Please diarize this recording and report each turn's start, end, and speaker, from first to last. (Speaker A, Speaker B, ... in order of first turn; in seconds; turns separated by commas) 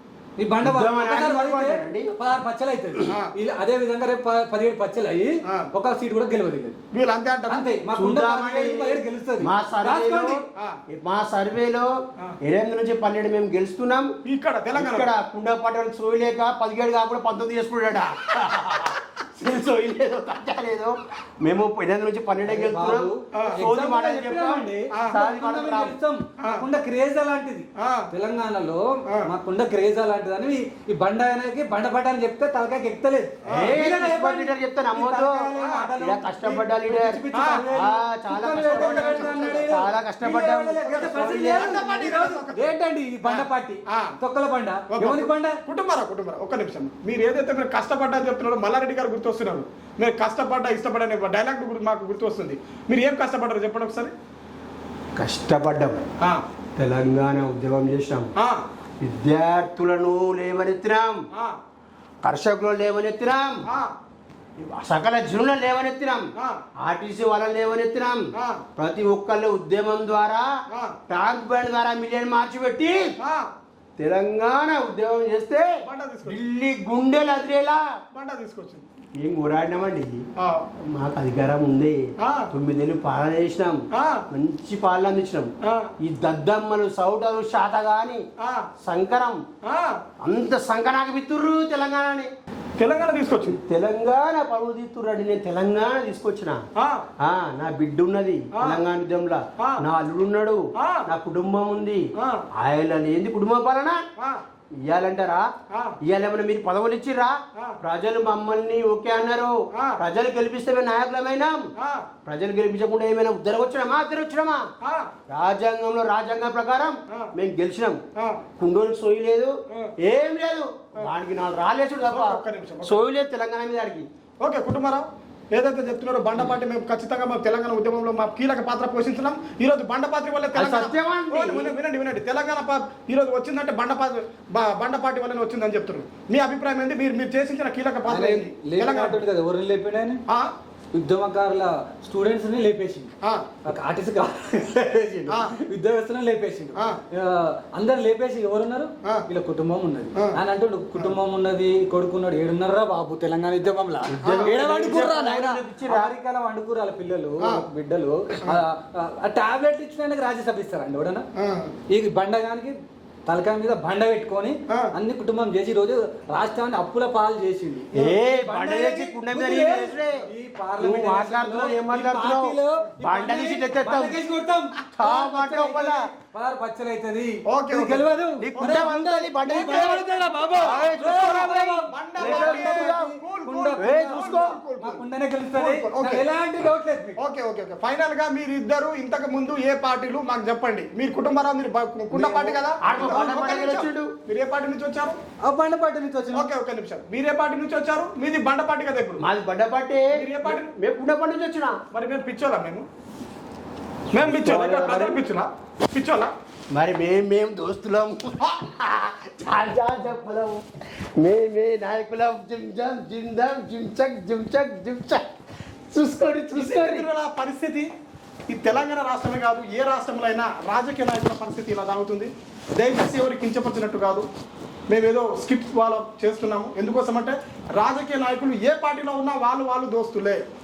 Speaker A: 0.4-6.8, Speaker B: 0.6-2.1, Speaker C: 6.9-7.7, Speaker A: 7.5-10.4, Speaker B: 7.9-11.9, Speaker B: 12.4-14.1, Speaker C: 14.2-15.1, Speaker B: 14.8-25.9, Speaker A: 22.4-45.6, Speaker C: 23.3-23.6, Speaker C: 27.8-28.1, Speaker C: 33.5-33.8, Speaker B: 33.5-35.5, Speaker C: 35.6-35.9, Speaker B: 36.0-42.2, Speaker C: 37.3-37.7, Speaker C: 38.5-39.8, Speaker C: 40.8-42.7, Speaker C: 43.2-44.1, Speaker C: 44.9-54.1, Speaker B: 55.2-56.0, Speaker B: 56.8-58.3, Speaker C: 58.4-58.6, Speaker B: 59.0-61.2, Speaker B: 62.2-63.6, Speaker C: 63.7-63.9, Speaker B: 64.6-66.3, Speaker C: 66.4-66.6, Speaker B: 66.8-68.2, Speaker C: 68.3-68.6, Speaker B: 68.8-70.5, Speaker C: 70.7-71.0, Speaker B: 71.1-73.1, Speaker C: 73.2-73.5, Speaker B: 74.0-75.7, Speaker C: 75.8-76.4, Speaker B: 76.2-77.8, Speaker C: 78.1-78.8, Speaker B: 79.2-80.1, Speaker C: 80.4-80.6, Speaker B: 80.9-83.8, Speaker C: 82.2-82.5, Speaker C: 84.0-84.2, Speaker B: 84.3-88.2, Speaker C: 85.6-85.9, Speaker C: 88.4-88.7, Speaker B: 88.8-89.4, Speaker C: 89.6-90.0, Speaker B: 90.2-92.3, Speaker C: 92.8-93.6, Speaker B: 93.5-96.6, Speaker C: 96.8-97.1, Speaker B: 97.2-102.0, Speaker C: 98.5-98.8, Speaker C: 100.8-101.0, Speaker C: 102.2-102.4, Speaker B: 102.5-104.0, Speaker B: 104.8-105.5, Speaker C: 105.7-106.0, Speaker B: 106.0-111.6, Speaker C: 109.7-110.0, Speaker C: 111.8-112.1, Speaker B: 112.2-114.6, Speaker C: 114.8-115.1, Speaker B: 115.3-118.0, Speaker B: 118.6-124.1, Speaker C: 122.1-123.0, Speaker C: 124.4-139.2, Speaker B: 130.5-131.8, Speaker A: 138.1-140.2, Speaker A: 140.9-143.1, Speaker C: 143.2-143.5, Speaker A: 143.6-161.2, Speaker B: 154.2-156.1, Speaker C: 154.2-154.6, Speaker C: 161.4-161.7, Speaker A: 161.9-162.7, Speaker A: 163.2-187.2, Speaker B: 167.9-170.2, Speaker B: 170.8-174.2, Speaker B: 175.0-176.0, Speaker C: 177.5-178.1, Speaker B: 178.4-180.1, Speaker C: 178.6-178.9, Speaker C: 179.6-181.3, Speaker B: 180.6-183.1, Speaker C: 181.9-185.0, Speaker B: 183.8-184.6, Speaker C: 185.5-186.2, Speaker C: 187.2-195.2, Speaker B: 192.1-194.1, Speaker A: 195.4-196.5, Speaker C: 196.3-199.2, Speaker B: 199.2-201.8, Speaker C: 200.2-200.7, Speaker C: 201.9-202.8, Speaker C: 204.1-206.3, Speaker B: 204.2-205.2, Speaker B: 206.7-210.6, Speaker B: 211.2-215.2, Speaker B: 215.9-217.1, Speaker C: 216.6-217.9, Speaker C: 218.5-224.2, Speaker C: 224.9-230.4